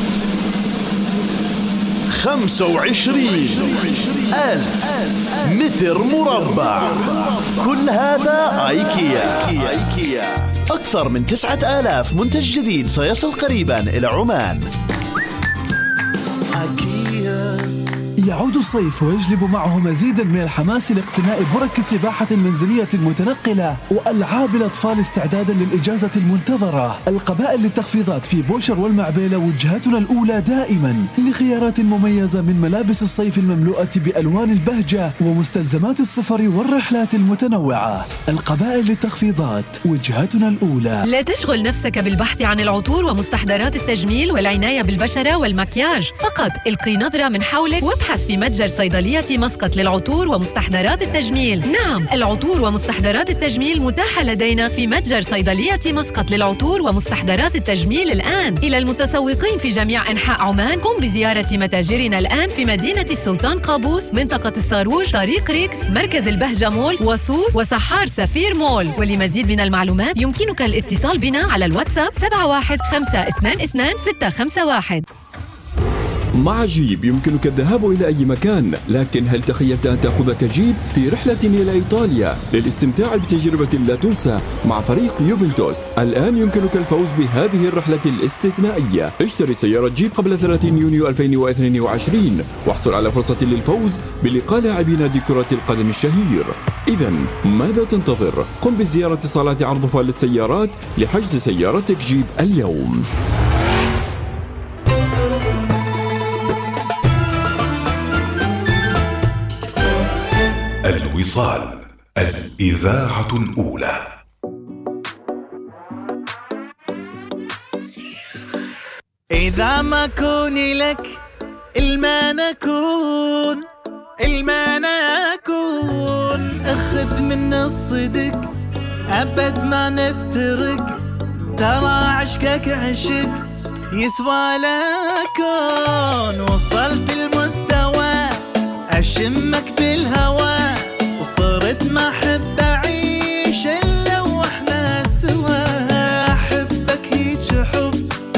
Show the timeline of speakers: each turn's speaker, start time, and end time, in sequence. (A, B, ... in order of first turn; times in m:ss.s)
0:02.1-0:14.6 A
0:16.6-0:17.5 A
0:18.2-0:41.0 B
0:41.0-1:15.0 C
1:16.4-1:43.0 D
1:50.8-1:54.0 E
1:59.3-2:01.2 F
2:01.8-2:03.6 F
2:04.2-2:08.4 F
2:09.1-2:11.0 F
2:11.5-2:13.4 F
2:13.9-2:28.1 F